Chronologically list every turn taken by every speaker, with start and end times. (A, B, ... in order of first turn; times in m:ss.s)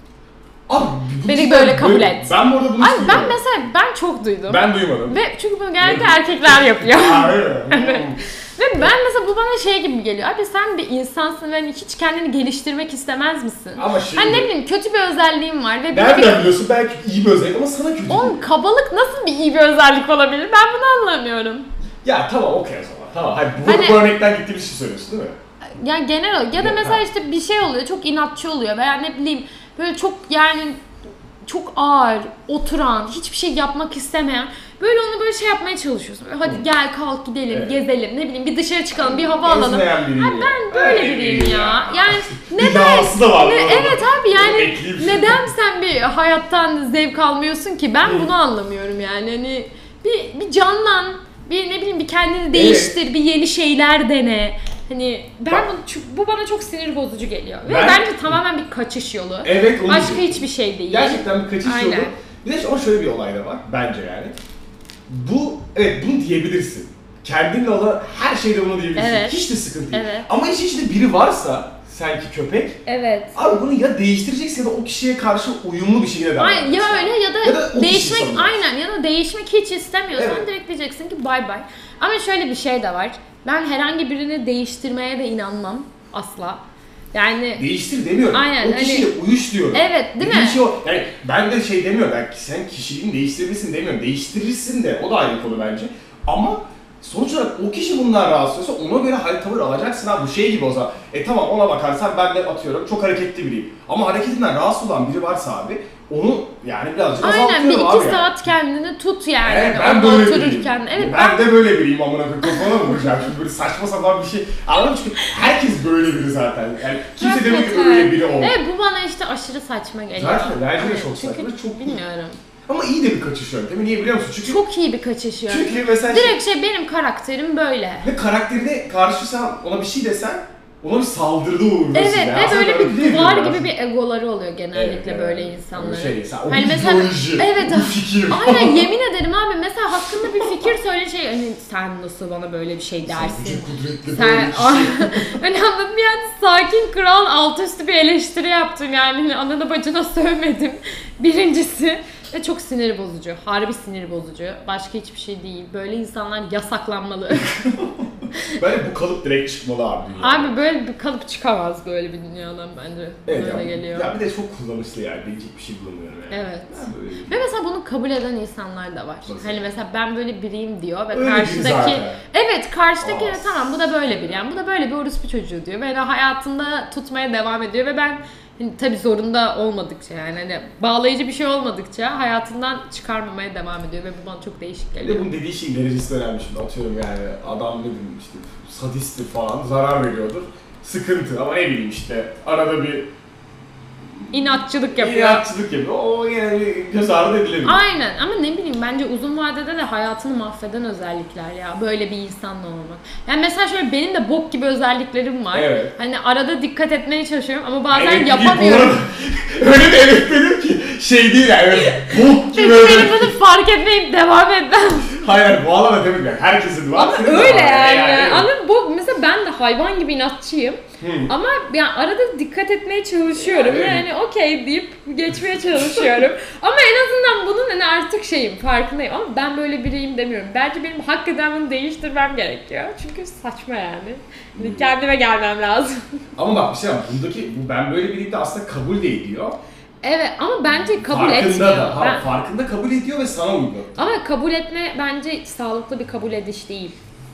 0:00.7-0:03.4 A
0:01.2-0:16.5 B
0:04.5-0:05.2 A
0:05.8-0:08.2 A
0:13.8-0:14.5 A
0:15.9-0:18.4 A
0:18.1-0:21.7 B
0:22.0-0:25.4 A
0:23.6-0:24.1 B
0:25.8-0:30.8 B
0:26.6-0:27.0 A
0:31.4-1:02.2 B
0:37.5-0:37.8 A
0:38.9-0:45.5 A
0:48.0-0:48.3 A
0:52.5-0:53.0 A
0:57.6-0:58.4 A
0:59.4-1:04.4 A
1:05.1-1:12.8 A
1:09.0-1:10.3 B
1:12.9-1:13.4 B
1:13.4-1:18.6 A
1:16.4-1:26.6 B
1:20.2-1:20.5 A
1:27.1-1:27.6 B
1:27.6-1:48.3 A
1:28.3-1:29.1 B
1:29.7-1:30.6 B
1:47.2-1:51.6 B
1:49.4-1:58.6 A
1:52.4-1:53.2 B
1:57.2-2:02.4 B
2:00.1-2:02.0 A
2:02.7-2:04.6 A
2:04.4-2:08.1 B
2:05.5-2:06.4 A
2:08.0-2:13.7 A
2:11.9-2:37.6 B
2:14.7-2:18.9 A
2:20.2-2:20.6 A
2:23.0-2:25.4 A
2:38.5-2:40.6 A
2:40.2-2:44.2 B
2:43.3-2:47.4 A
2:46.3-3:05.3 B
2:49.3-2:49.6 A
2:51.1-2:52.2 A
2:53.0-2:54.0 A
3:05.0-3:13.1 A
3:14.3-3:17.8 A
3:14.3-3:15.4 B
3:17.6-3:29.0 B
3:25.5-3:25.9 A
3:27.9-3:33.3 A
3:31.8-3:35.2 B
3:35.1-3:38.5 A
3:36.9-3:56.0 B
3:41.0-3:41.3 A
3:43.4-3:44.1 A
3:45.4-3:46.3 A
3:54.6-3:54.9 A
3:56.4-3:59.6 A
4:00.0-4:02.3 B
4:00.7-4:04.2 A
4:04.0-4:07.0 B